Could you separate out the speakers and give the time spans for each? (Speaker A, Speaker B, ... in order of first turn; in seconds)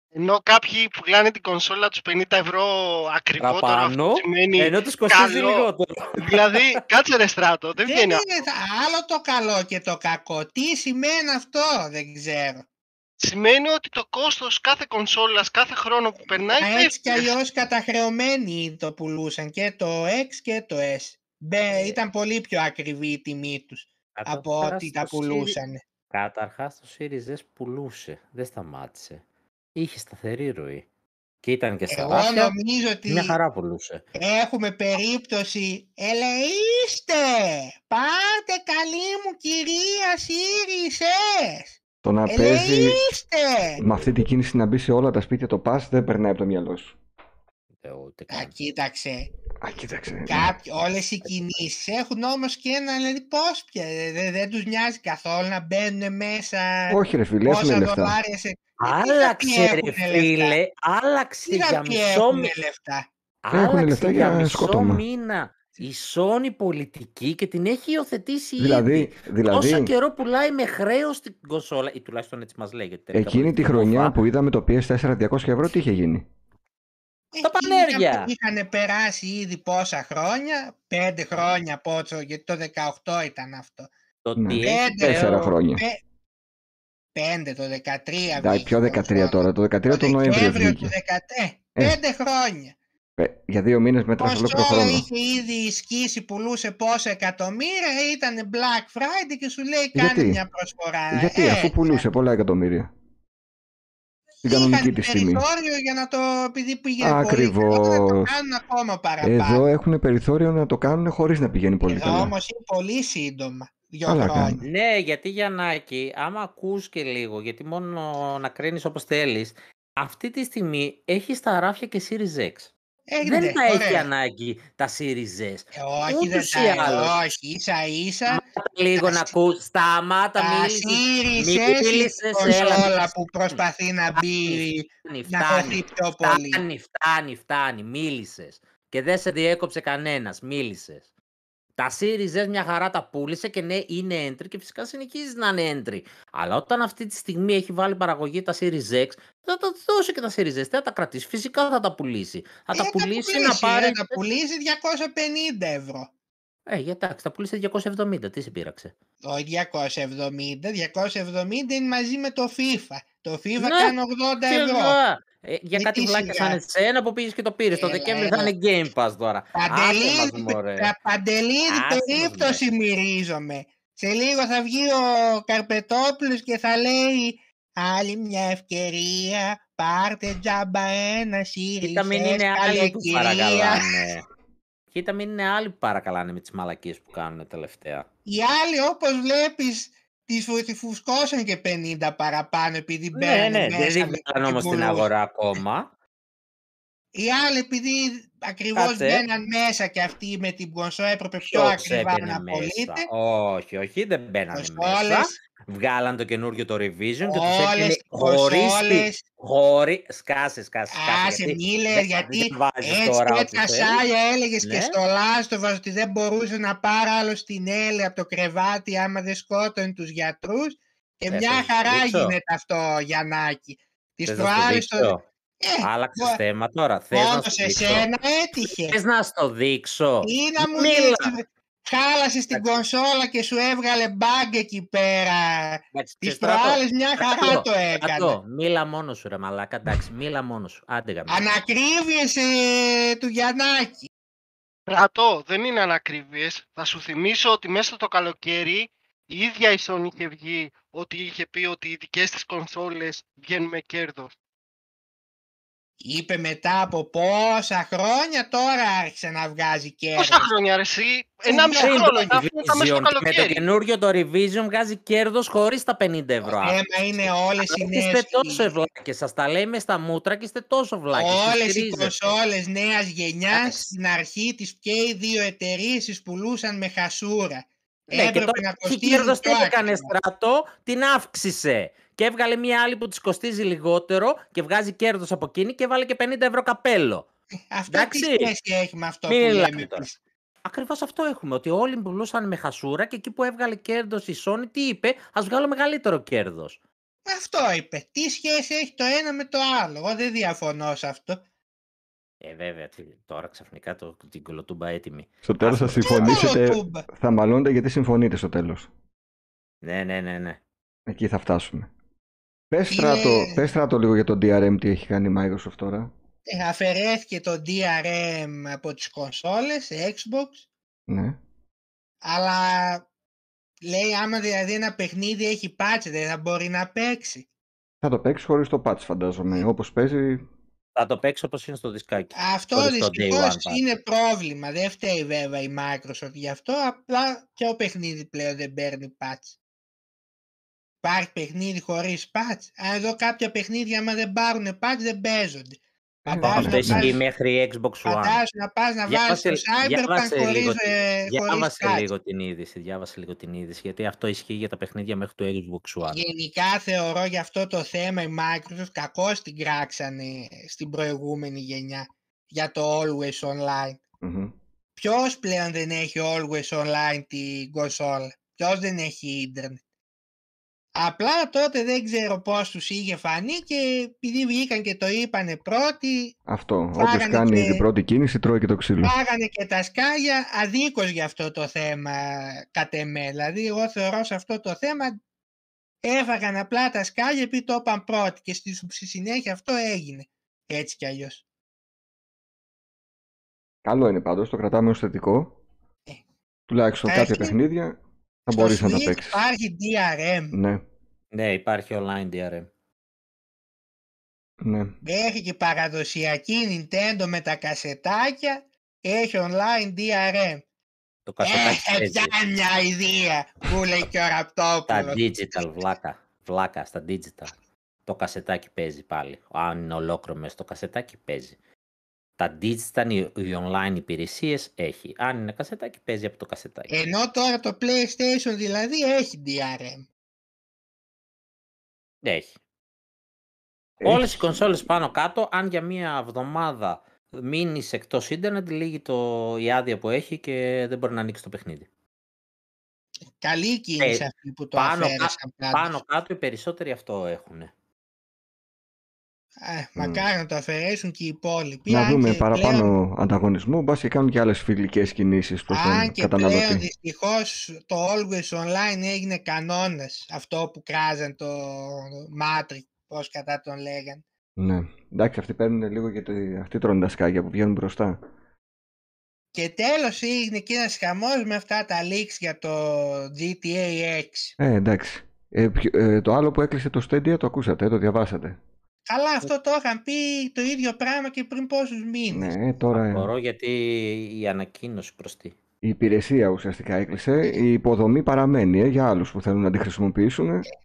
Speaker A: 0.1-5.7, 6.2-8.2, 13.2-17.4, 244.9-254.3, 260.2-263.6
Speaker B: 3.4-6.8, 21.7-22.0, 24.2-25.6, 26.1-29.2, 29.8-30.9, 31.4-32.6, 33.1-34.0, 43.8-44.2, 47.8-48.5, 58.8-62.5, 63.4-74.2, 77.4-78.3, 84.2-85.5, 114.6-127.2, 128.3-133.6, 134.2-141.1, 141.8-154.2, 156.7-158.9, 163.6-163.9, 164.4-170.9, 171.7-172.6, 181.8-184.3, 184.9-188.1, 193.1-195.9, 198.8-199.2, 201.5-214.0, 214.6-215.0, 221.3-222.4, 224.2-225.2, 225.8-231.3, 232.5-232.8, 235.9-241.5, 261.8-272.3, 273.5-273.9, 278.1-287.3, 287.9-288.5, 289.3-290.1, 290.6-296.8, 302.4-306.5, 309.8-310.6, 331.0-333.8, 346.4-348.4, 349.1-356.2, 401.3-402.7, 411.3-412.4, 414.9-417.6, 418.1-421.6, 422.4-426.9, 432.2-432.5, 434.0-441.9, 444.0-447.7, 482.9-485.6
Speaker C: 7.9-12.7, 16.6-25.8, 31.9-33.4, 34.2-43.8, 48.3-49.3, 50.3-60.6, 61.5-63.1, 77.3-83.9, 84.6-86.0, 87.2-92.8, 94.2-102.1, 104.4-109.7, 111.8-114.6, 123.1-124.1, 125.8-128.4, 129.0-129.3, 130.4-136.6, 152.7-156.1, 159.2-165.0, 165.8-166.6, 167.7-168.5, 169.6-183.9, 188.3-195.1, 197.2-203.1, 204.5-205.4, 207.2-209.2, 210.9-226.4, 227.1-229.0, 230.2-238.4, 241.3-244.1, 256.0-260.5, 261.5-262.1, 266.5-268.7, 271.1-280.1, 287.7-290.2, 297.3-301.4, 306.0-307.1, 312.9-313.7, 316.5-320.6, 322.2-323.1, 323.8-327.5, 332.3-339.6, 341.0-347.2, 348.1-352.1, 356.1-364.0, 365.0-369.8, 370.9-376.4, 377.0-377.8, 379.0-385.2, 386.0-391.4, 397.1-397.6, 398.5-400.6, 405.0-410.6, 411.4-415.2, 426.9-430.1, 443.4-445.9, 449.6-452.9, 455.7-464.2, 469.5-474.6, 479.1-482.5
Speaker D: 42.0-43.0, 43.8-47.0, 49.6-50.5, 56.9-58.2, 63.5-65.0, 68.6-69.9, 73.1-76.3, 84.4-85.8, 88.4-90.9, 93.2-95.1, 100.0-100.4, 101.1-102.9, 104.5-105.4, 107.0-108.3, 109.2-112.3, 114.1-114.6, 305.4-308.9, 311.1-311.9, 312.7-316.1, 321.1-321.4, 328.0-330.4, 346.3-347.2, 364.2-364.5, 376.5-379.1, 393.8-395.6, 396.7-399.4, 400.5-400.8, 404.6-405.0, 434.0-434.9, 450.0-450.3, 451.9-456.9, 464.6-468.2, 474.6-478.6, 482.3-483.3, 485.8-490.7